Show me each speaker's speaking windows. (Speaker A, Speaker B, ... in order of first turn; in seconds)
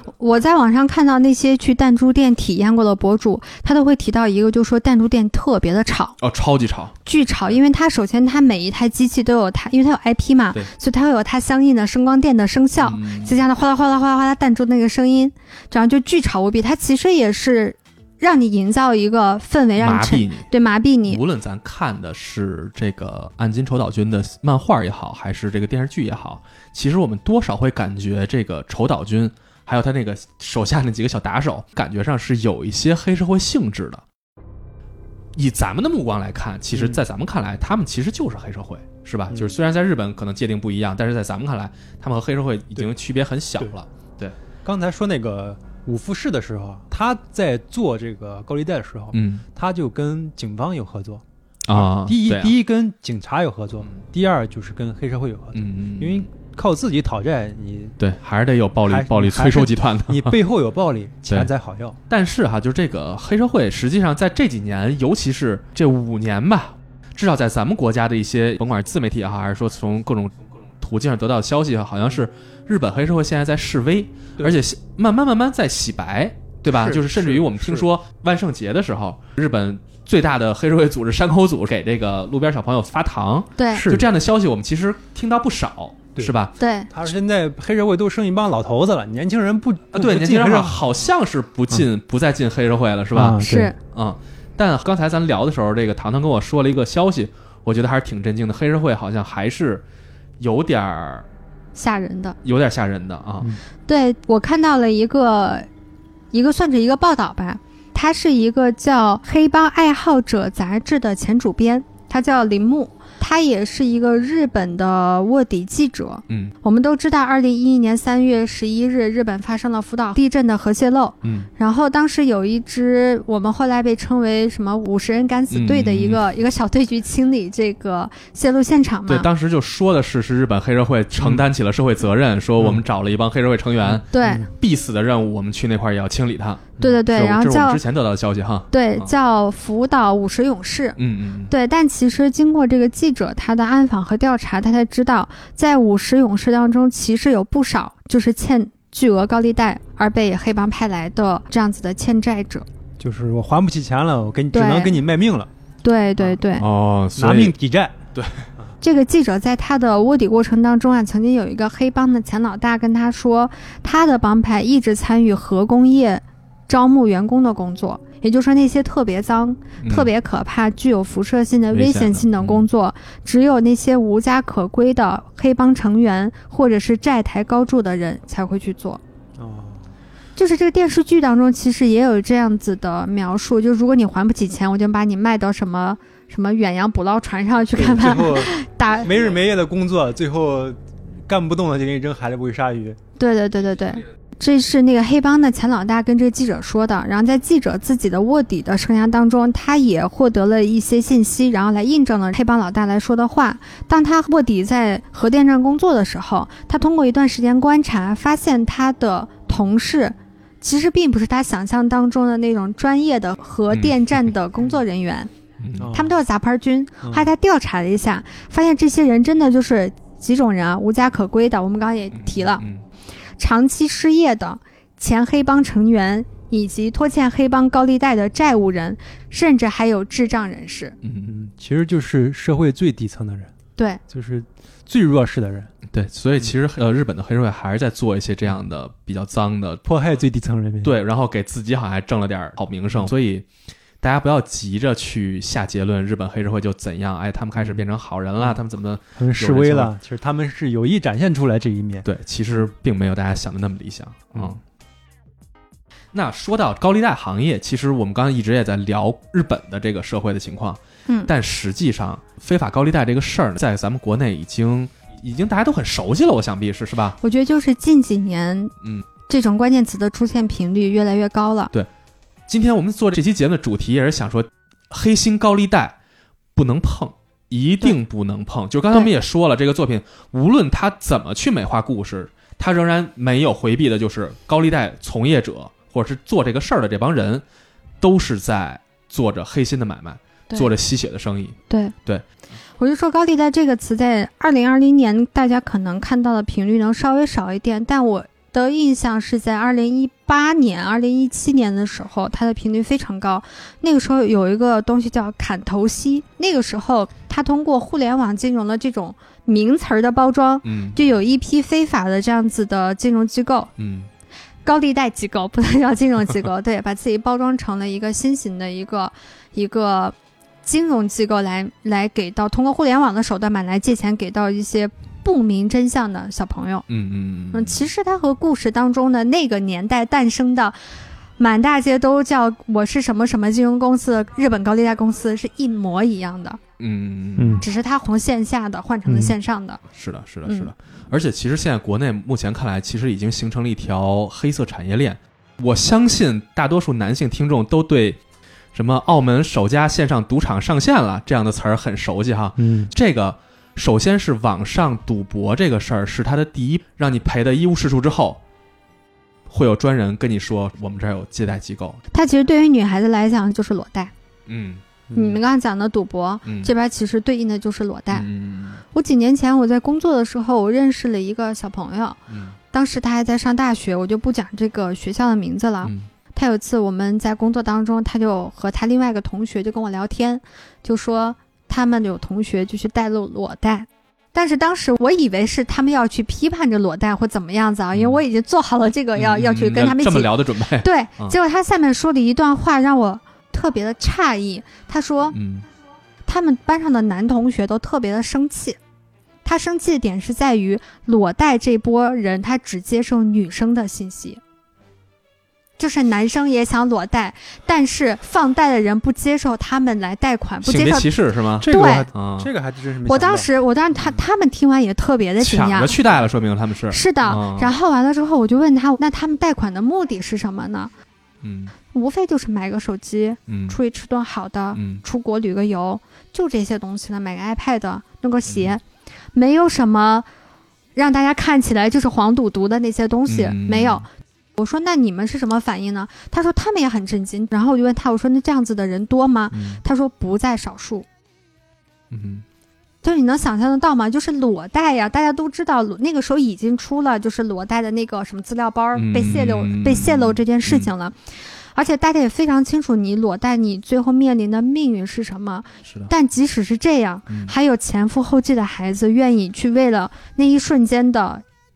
Speaker A: 0.2-6.1, 7.0-21.2, 83.6-83.9, 86.6-86.9, 93.4-93.8, 101.7-102.4, 103.9-105.7, 106.3-129.3, 134.1-134.5, 136.8-137.8, 138.7-141.0, 141.5-152.7, 154.5-155.0, 155.8-156.6, 158.8-179.0, 180.4-189.2, 193.2-215.3, 215.9-222.6, 223.4-230.9, 267.2-268.7, 269.3-271.7, 292.8-313.7, 314.6-326.8, 327.5-330.8, 331.4-336.6, 337.6-339.8, 340.4-340.7, 362.1-364.1, 365.1-368.3, 368.9-372.2, 372.7-395.4, 396.2-398.8, 399.4-404.4, 405.8-411.1, 411.6-412.1, 413.1-415.9, 416.9-420.9, 421.9-428.8, 429.3-430.3, 430.9-441.1, 443.0-451.1, 451.7-461.4
Speaker B: 6.2-7.0, 12.8-13.4, 19.8-20.5, 21.1-34.0, 35.4-44.4, 49.1-49.4, 51.6-52.5, 55.5-56.3, 58.0-60.4, 62.1-86.5, 89.9-99.8, 100.4-101.2, 102.4-103.5, 116.3-116.5, 121.2-121.5, 125.5-126.2, 129.1-139.1, 141.0-141.5, 156.6-157.5, 158.1-158.5, 169.8-170.1, 171.7-172.7, 213.7-214.2, 215.6-215.9, 222.2-222.8, 231.0-231.3, 235.9-239.8, 240.8-243.4, 244.0-249.9, 252.0-254.6, 256.1-267.2, 272.5-276.0, 276.6-287.4, 288.0-292.2, 310.6-311.0, 313.8-314.1, 326.9-327.9, 336.8-337.6, 339.9-348.2, 348.7-358.4, 359.5-362.0, 364.5-364.8, 366.4-366.7, 368.1-368.8, 372.3-372.5, 375.8-376.1, 387.9-388.2, 389.1-391.3, 395.3-395.6, 410.6-412.5, 415.4-417.7, 421.4-421.7, 423.5-423.8, 424.7-425.0, 428.5-428.8, 433.3-434.0, 439.5-439.8, 442.1-442.4, 448.9-450.9, 455.8-456.1
Speaker C: 36.7-37.0, 44.6-58.0, 58.8-62.0, 76.7-77.9, 83.8-84.1, 86.9-90.8, 93.1-93.7, 131.2-131.4, 133.8-134.5, 153.0-155.5, 157.2-157.9, 179.4-179.9, 187.7-193.0, 215.8-216.1, 217.0-217.3, 231.2-233.5, 234.1-235.7, 239.8-240.9, 249.2-252.1, 337.4-337.6, 352.6-352.9, 365.1-365.4, 411.6-413.5